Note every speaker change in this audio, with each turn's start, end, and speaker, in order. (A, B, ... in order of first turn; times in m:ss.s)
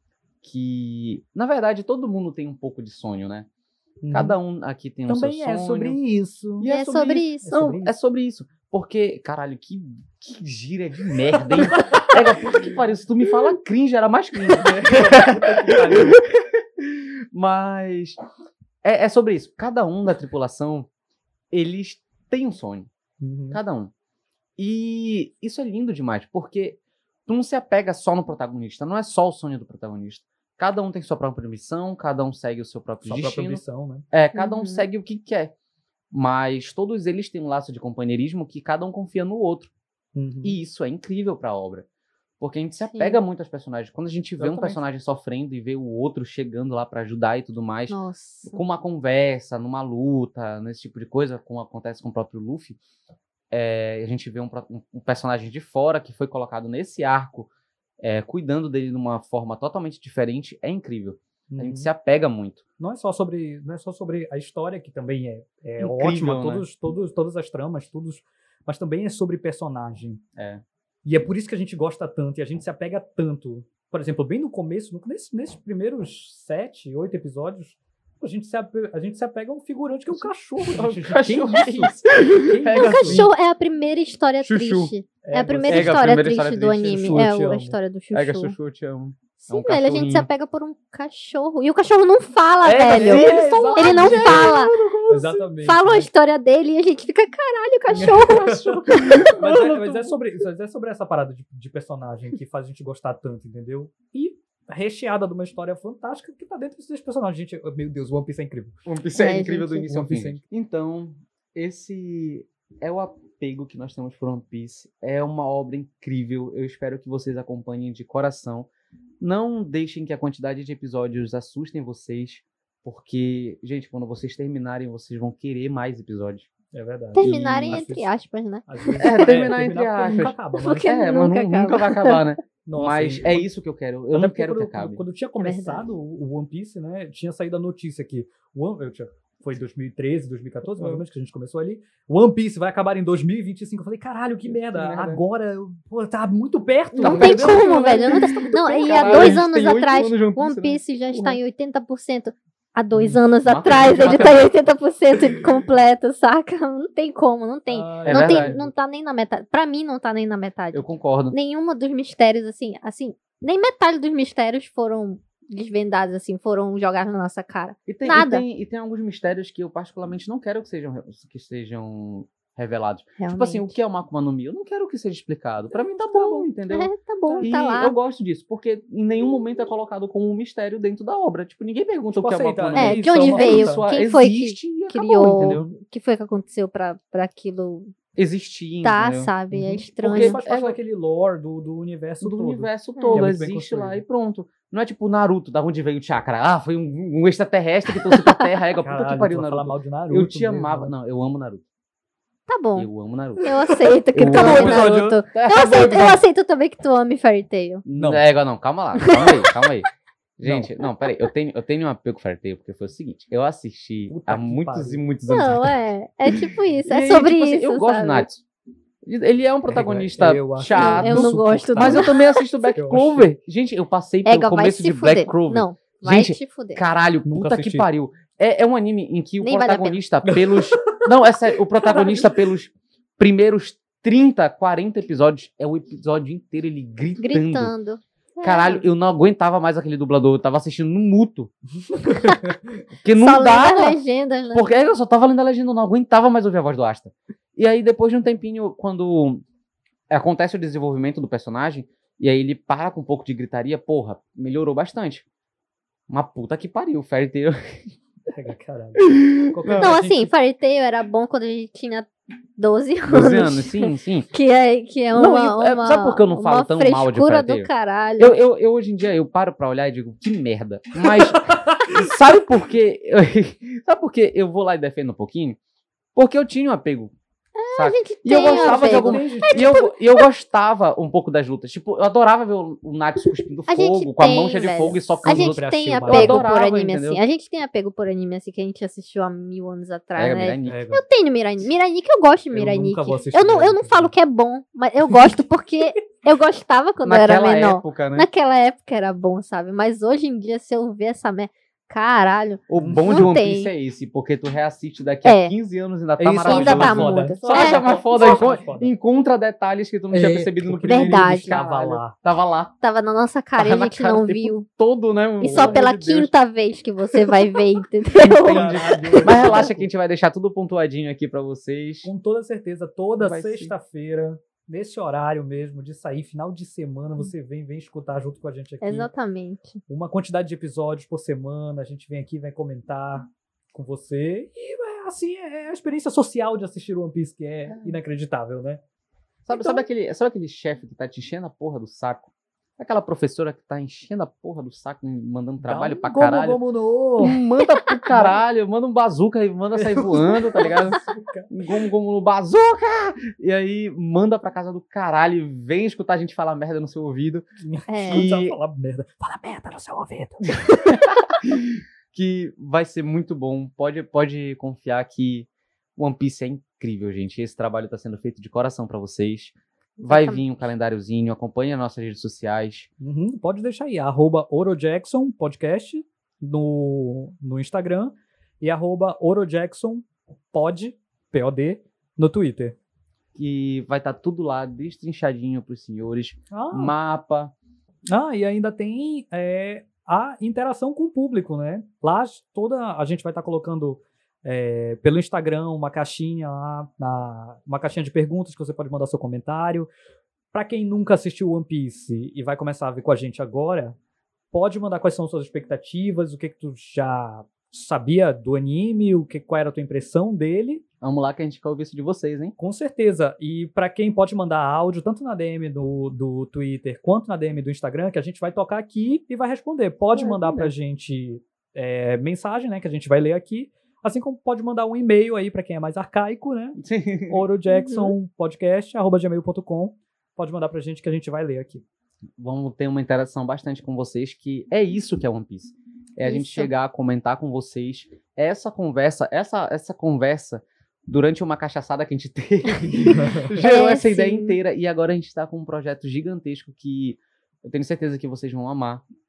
0:00.4-0:03.5 A
0:04.0-0:04.4 B
0:04.1-0:06.0 A
0:05.1-0:07.9 B
0:06.6-0:18.2 A
0:06.6-0:07.6 C
0:11.7-0:12.1 B
0:14.5-0:16.2 B
0:18.8-0:20.9 A
0:21.5-0:22.9 A
0:23.2-0:23.6 B
0:23.5-0:23.9 A
0:24.6-0:35.5 A
0:33.0-0:34.0 B
0:34.4-0:34.9 C
0:36.1-0:39.7 A
0:40.1-0:40.6 B
0:40.4-0:41.9 A
0:42.4-0:48.0 A
0:42.9-0:43.2 C
0:44.4-0:44.8 B
0:47.9-0:48.6 C
0:48.5-0:52.8 A
0:53.5-0:57.5 A
0:58.0-1:02.6 A
1:01.5-1:01.9 B
1:02.8-1:10.2 B
1:05.8-1:06.6 A
1:10.4-1:10.6 A
1:11.0-1:23.3 B
1:20.1-1:23.3 A
1:22.8-1:28.6 C
1:24.4-1:24.9 A
1:25.2-1:26.1 B
1:25.7-1:27.0 A
1:26.8-1:27.8 B
1:28.1-1:30.3 A
1:29.4-1:34.7 C
1:32.6-1:34.5 B
1:32.7-1:35.5 A
1:35.1-1:36.1 B
1:35.6-1:39.3 C
1:37.9-1:48.8 B
1:38.5-1:40.2 A
1:48.8-1:58.7 A
1:49.1-1:49.8 C
1:49.8-1:50.4 B
1:59.2-2:06.5 A
2:06.7-2:08.1 B
2:07.1-2:09.3 C
2:07.2-2:07.9 A
2:08.7-2:10.9 B
2:09.0-2:15.0 A
2:10.6-2:12.3 C
2:12.6-2:13.5 B
2:14.1-2:29.5 B
2:15.4-2:15.9 C
2:20.7-2:21.0 A
2:24.5-2:25.2 A
2:26.9-2:31.4 A
2:27.0-2:48.5 C
2:32.9-2:34.5 A
2:37.7-2:38.7 B
2:38.1-2:38.5 A
2:40.7-2:41.4 A
2:47.9-2:56.9 A
2:53.2-2:53.8 C
2:56.1-2:57.9 C
2:57.2-2:57.5 B
2:57.4-3:05.6 A
3:02.2-3:03.8 B
3:02.8-3:07.9 C
3:05.4-3:05.7 B
3:08.2-3:09.3 A
3:08.8-3:10.4 C
3:09.5-3:14.0 B
3:10.0-3:10.8 A
3:12.2-3:21.6 A
3:18.1-3:18.5 C
3:18.8-3:20.9 B
3:22.5-3:22.9 C
3:22.8-3:23.5 A
3:23.4-3:27.8 C
3:24.1-3:26.2 A
3:24.3-3:25.2 B
3:27.8-3:35.8 A
3:27.9-3:28.3 B
3:29.0-3:29.5 C
3:30.4-3:30.7 B
3:34.1-3:35.0 B
3:35.2-3:38.3 C
3:36.9-3:38.4 A
3:39.0-3:57.7 A
3:39.7-3:42.1 B
3:40.7-3:42.4 C
3:42.7-3:43.3 B
3:44.2-3:46.8 C
3:47.2-3:47.9 B
3:49.4-3:50.0 C
3:50.2-3:51.0 B
3:51.8-3:52.3 B
3:57.2-3:58.8 C
3:58.4-4:01.5 A
4:01.9-4:02.8 B
4:02.1-4:02.5 C
4:03.0-4:04.0 A
4:03.1-4:04.7 C
4:04.5-4:09.4 A
4:10.1-4:15.2 A
4:16.1-4:17.8 A
4:18.3-4:20.3 B
4:19.0-4:19.9 A
4:19.7-4:28.4 C
4:23.1-4:24.3 A
4:25.1-4:35.6 A
4:31.2-4:32.0 B
4:36.1-4:37.1 A
4:37.6-4:40.2 C
4:37.7-4:47.2 A
4:38.4-4:39.6 B
4:43.7-5:03.7 C
4:44.4-4:46.5 B
4:50.2-4:50.8 A
4:50.6-4:51.0 B
4:52.5-4:54.1 B
4:57.0-4:58.3 A
5:02.7-5:12.7 A
5:02.8-5:03.3 B
5:05.2-5:05.5 C
5:06.2-5:08.9 B
5:06.4-5:08.5 C
5:10.1-5:12.2 B
5:10.9-5:11.6 C
5:12.8-5:14.6 C
5:13.6-5:16.3 A
5:15.4-5:19.6 C
5:15.4-5:15.8 B
5:18.1-5:22.1 A
5:18.3-5:19.9 B
5:22.0-5:29.1 B
5:23.2-5:23.7 A
5:28.8-5:29.8 C
5:29.9-5:38.8 B
5:37.6-5:38.0 A
5:39.5-5:46.6 A
5:45.6-5:47.4 B
5:47.2-5:51.0 A
5:48.1-5:48.4 B
5:49.8-5:51.5 B
5:51.5-5:57.5 A
5:57.6-6:00.6 B
5:57.9-5:58.3 C
5:58.0-5:58.6 A
6:00.7-6:12.9 A
6:10.0-6:10.5 C
6:13.0-6:22.8 B
6:23.4-6:27.5 A
6:26.5-6:26.9 B
6:28.1-6:39.9 B
6:40.5-6:44.0 B
6:44.5-6:50.8 B
6:51.0-6:52.5 A
6:52.6-7:06.8 B
7:00.1-7:00.7 A
7:06.8-7:07.5 A
7:07.3-7:11.8 B
7:07.7-7:08.1 C
7:12.4-7:29.0 A
7:16.2-7:16.7 C
7:23.1-7:23.5 B
7:23.6-7:24.6 C